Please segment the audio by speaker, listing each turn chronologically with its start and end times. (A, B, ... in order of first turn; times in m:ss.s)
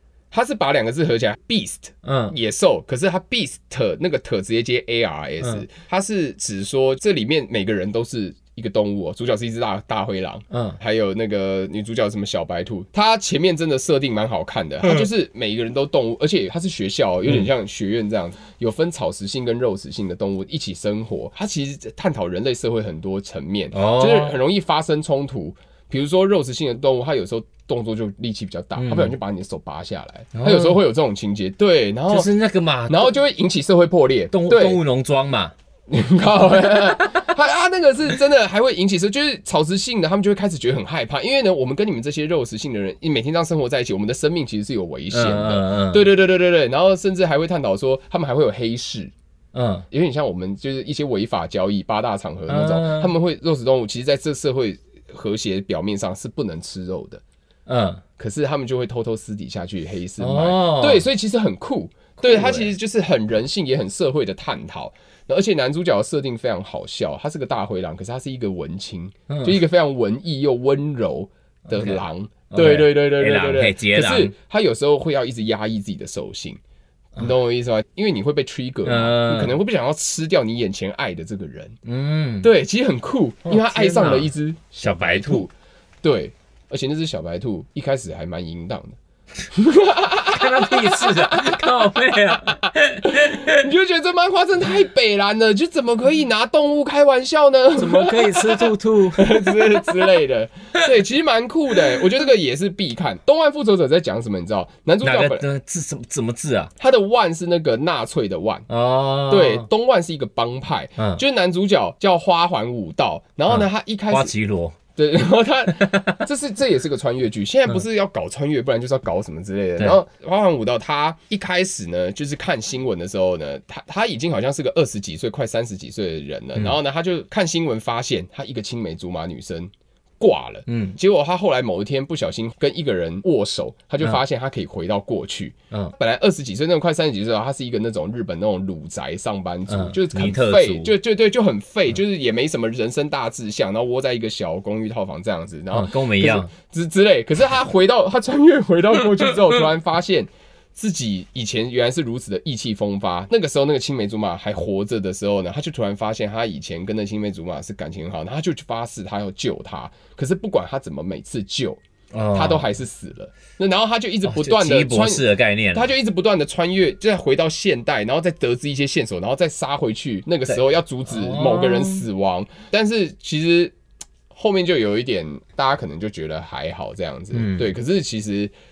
0:00.3-0:32.3 A
0:02.0-0:02.4 B
0:10.5-0:10.8 B
0:23.7-0:24.4 B
0:28.8-0:29.2 B
0:30.3-0:30.8 B
0:32.1-0:33.1 B
0:32.9-0:34.8 A
0:34.3-0:35.5 B
0:35.9-0:49.1 A
0:37.0-0:37.3 B
0:45.1-0:46.1 B
0:49.5-0:49.9 B
0:49.9-0:57.2 A
0:52.5-0:53.1 B
0:57.7-0:58.0 B
0:58.2-1:16.6 A
1:00.2-1:01.1 B
1:02.2-1:02.7 B
1:09.3-1:09.6 B
1:11.7-1:14.3 B
1:17.2-1:21.8 A
1:18.8-1:19.6 B
1:21.8-1:22.5 B
1:22.4-1:25.5 A
1:23.5-1:25.4 B
1:26.0-1:29.0 A
1:29.5-1:31.9 A
1:30.2-1:33.6 B
1:33.1-1:45.5 A
1:37.8-1:40.0 B
1:45.0-1:46.7 B
1:46.8-1:48.7 A
1:48.7-1:49.7 B
1:49.3-1:54.3 A
1:51.0-1:51.2 B
1:53.5-1:54.8 B
1:55.0-2:41.8 A
1:55.7-1:56.2 B
2:10.7-2:11.0 B
2:19.7-2:20.9 B
2:25.7-2:26.5 B
2:42.1-2:42.7 B
2:42.3-2:53.7 A
2:44.2-2:45.9 B
2:50.5-2:52.1 B
2:54.3-2:58.5 A
2:57.3-2:57.7 B